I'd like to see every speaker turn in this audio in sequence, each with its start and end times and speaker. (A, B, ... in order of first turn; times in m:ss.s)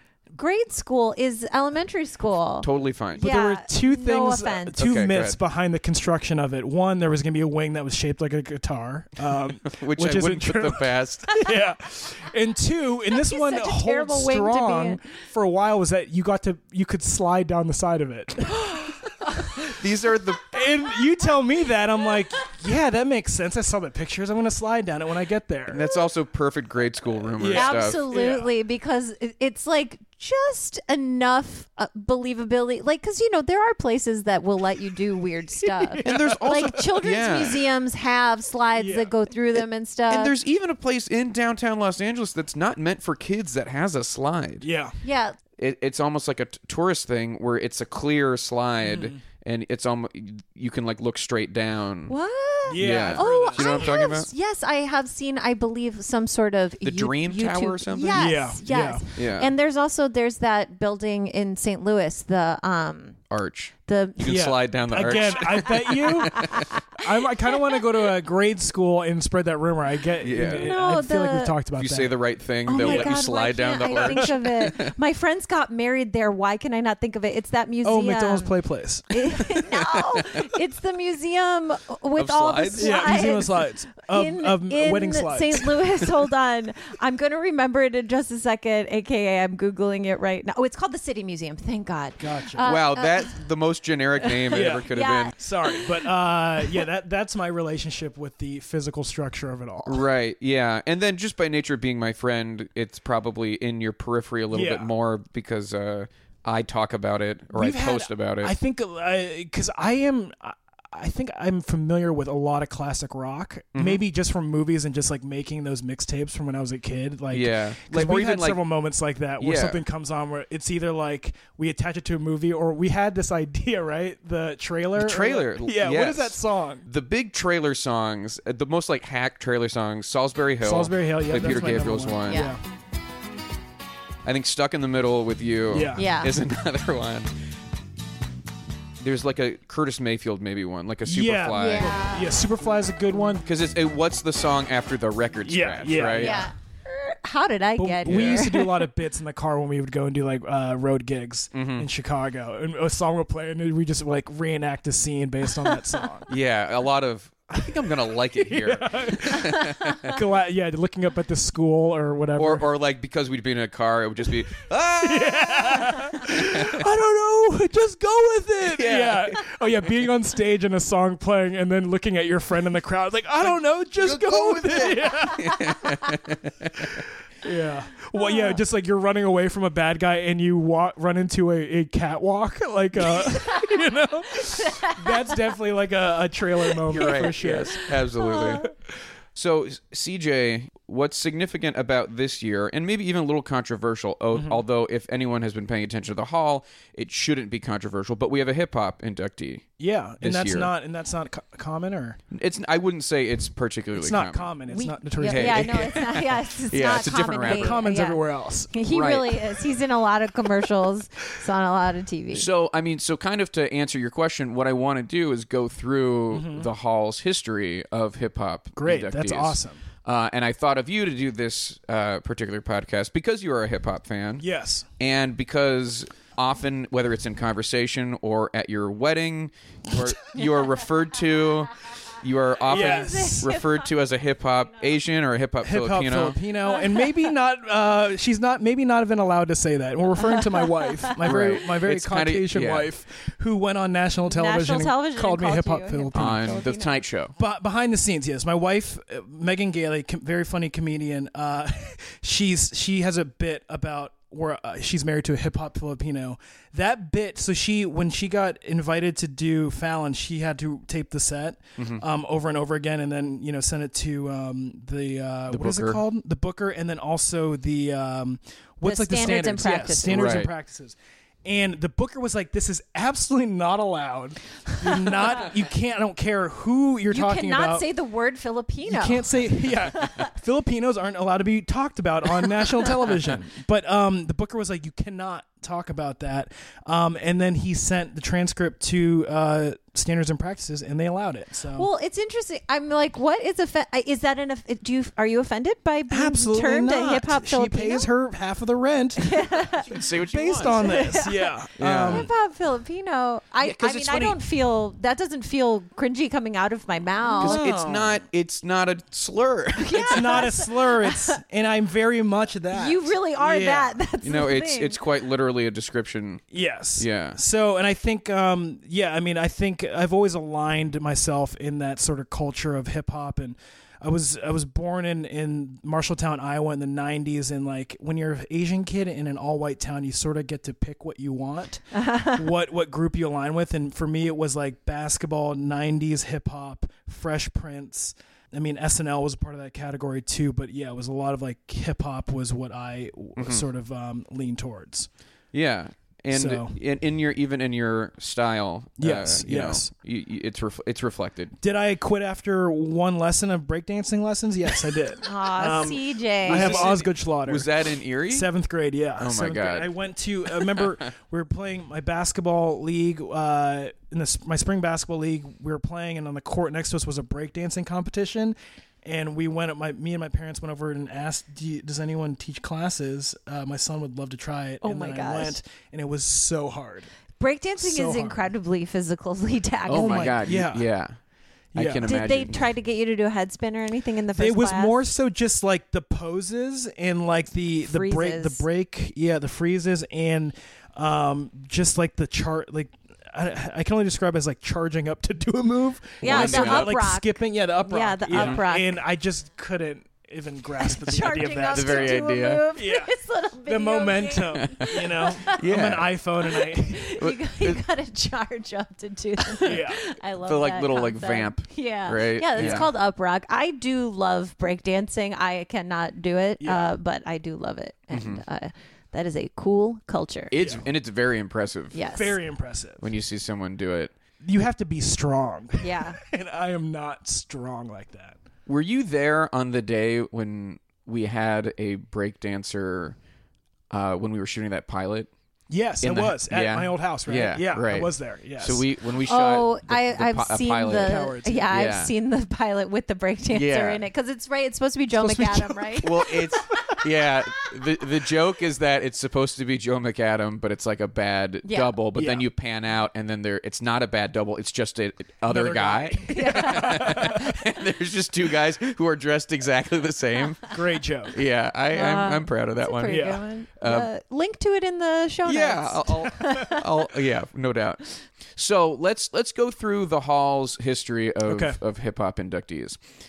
0:00.4-0:04.8 A
0:02.6-0:03.3 B
0:03.2-0:19.8 C
0:04.8-0:05.4 B
0:09.7-0:11.3 B
0:11.3-0:11.6 A
0:13.1-0:15.0 A
0:19.7-0:20.4 B
0:20.5-0:25.8 C
0:25.7-0:28.0 B
0:27.3-0:28.5 C
0:27.5-0:40.3 A
0:35.6-0:36.8 C
0:36.0-0:37.6 B
0:38.8-0:39.1 C
0:40.1-0:44.7 B
0:44.6-0:45.0 C
0:45.0-0:45.4 A
0:45.6-0:52.1 B
0:48.8-0:49.2 C
0:52.1-1:03.2 A
0:52.7-0:54.0 C
0:52.8-0:54.3 B
0:56.8-0:58.3 B
0:58.2-0:59.0 C
0:59.2-0:59.5 B
1:03.3-1:06.7 B
1:03.9-1:04.4 A
1:04.3-1:12.2 C
1:05.0-1:06.2 A
1:10.2-1:10.7 B
1:10.4-1:11.6 A
1:11.8-1:14.9 B
1:12.7-1:18.6 A
1:12.7-1:13.2 C
1:13.9-1:14.4 C
1:17.8-1:19.1 C
1:19.1-1:33.4 A
1:19.8-1:20.5 B
1:22.2-1:23.1 B
1:22.8-1:26.0 C
1:32.2-1:32.6 C
1:32.6-1:35.3 B
1:34.2-1:35.8 A
1:34.5-1:34.9 C
1:35.4-1:40.0 C
1:39.9-1:48.6 B
1:44.5-1:44.9 C
1:47.5-2:06.9 C
1:53.7-1:54.0 B
1:57.3-1:58.6 B
1:59.4-1:59.8 B
2:05.0-2:12.5 B
2:10.6-2:12.6 C
2:11.3-2:11.6 A
2:12.2-2:12.6 A
2:14.2-2:17.3 B
2:15.7-2:16.1 C
2:16.0-2:16.3 A
2:19.0-2:22.0 B
2:21.0-2:23.4 C
2:21.6-2:22.3 A
2:23.4-2:26.5 B
2:25.4-2:26.5 C
2:26.1-2:28.9 A
2:27.8-2:36.3 C
2:28.0-2:28.5 B
2:31.5-2:31.9 B
2:36.3-2:40.1 B
2:38.4-2:42.7 C
2:42.4-2:46.9 B
2:45.0-2:55.9 C
2:48.7-2:49.4 B
2:54.0-2:56.9 B
2:56.8-3:07.9 C
2:58.2-2:58.6 A
3:03.2-3:03.7 A
3:04.7-3:05.4 A
3:06.9-3:08.7 B
3:06.9-3:07.3 A
3:08.2-3:08.6 A
3:09.4-3:19.7 B
3:14.3-3:14.6 C
3:19.8-3:22.2 C
3:20.2-3:20.7 B
3:22.3-3:24.5 B
3:24.0-3:26.2 C
3:24.7-3:32.5 A
3:25.2-3:27.8 B
3:26.9-3:28.7 C
3:28.9-3:29.4 B
3:32.3-3:44.5 B
3:36.3-3:36.7 C
3:38.8-3:39.8 C
3:44.4-3:44.9 C
3:45.0-3:56.4 B
3:52.7-3:53.8 A
3:52.7-3:53.5 C
3:55.6-4:06.6 C
3:56.7-3:57.0 A
4:00.2-4:01.5 A
4:01.2-4:02.9 B
4:04.3-4:07.0 A
4:06.1-4:07.3 B
4:07.4-4:37.9 C
4:21.8-4:22.0 B
4:25.5-4:26.0 B
4:28.8-4:30.4 A
4:30.1-4:30.5 B
4:37.1-4:39.4 A
4:38.9-4:51.9 C
4:51.8-4:58.1 A
4:56.1-4:59.4 C
4:59.2-5:00.0 A
4:59.9-5:01.0 B
5:00.0-5:02.3 C
5:00.6-5:07.6 A
5:01.8-5:02.3 B
5:03.6-5:04.3 B
5:03.8-5:04.3 C
5:07.2-5:08.2 C
5:07.4-5:10.5 B
5:09.8-5:11.4 A
5:09.9-5:14.0 C
5:12.7-5:15.0 A
5:14.2-5:16.4 B
5:16.5-5:45.1 C
5:17.0-5:17.4 B
5:32.0-5:32.4 A
5:43.4-5:43.7 B
5:45.5-5:51.6 B
5:46.3-5:46.8 C
5:49.0-5:49.9 C
5:51.6-5:57.7 C
5:55.2-5:56.9 A
5:56.4-5:58.5 B
5:58.3-6:17.1 C
5:59.2-5:59.9 B
6:00.5-6:01.0 B
6:14.8-6:15.6 A
6:17.4-6:20.4 A
6:17.8-6:18.4 C
6:19.9-6:21.2 B
6:19.9-6:20.9 C
6:21.7-6:22.2 C
6:21.8-6:22.7 B
6:22.0-6:25.0 A
6:24.4-6:42.2 C
6:27.8-6:28.6 A
6:36.2-6:37.0 B
6:36.2-6:39.0 A
6:38.3-6:38.6 B
6:40.8-6:45.6 A
6:41.7-6:42.6 B
6:42.8-6:43.1 C
6:43.7-6:47.1 C
6:45.5-6:46.2 B
6:46.4-7:00.5 A
6:47.2-6:47.8 B
6:49.6-6:50.0 C
6:50.4-6:52.9 B
6:52.6-6:52.9 C
6:56.6-6:56.9 C
6:58.1-6:58.4 B
7:00.5-7:02.0 B
7:00.6-7:00.8 C
7:01.9-7:02.4 A
7:02.1-7:03.1 C
7:03.0-7:04.1 B
7:04.4-7:08.4 C
7:05.8-7:06.2 A
7:08.7-7:13.2 B
7:13.9-7:15.3 B
7:15.7-7:18.8 C
7:16.0-7:22.1 B
7:19.3-7:26.3 A
7:20.9-7:21.7 C
7:23.5-7:24.0 B
7:25.2-7:27.0 C
7:26.0-7:40.7 B
7:31.6-7:32.0 A
7:32.2-7:32.4 C
7:35.5-7:37.5 C
7:36.3-7:37.4 A
7:40.7-7:41.4 C
7:41.3-7:44.1 B
7:41.9-7:46.8 A
7:43.1-7:43.4 C
7:45.4-7:48.0 B
7:48.5-7:53.0 B
7:51.5-7:51.8 C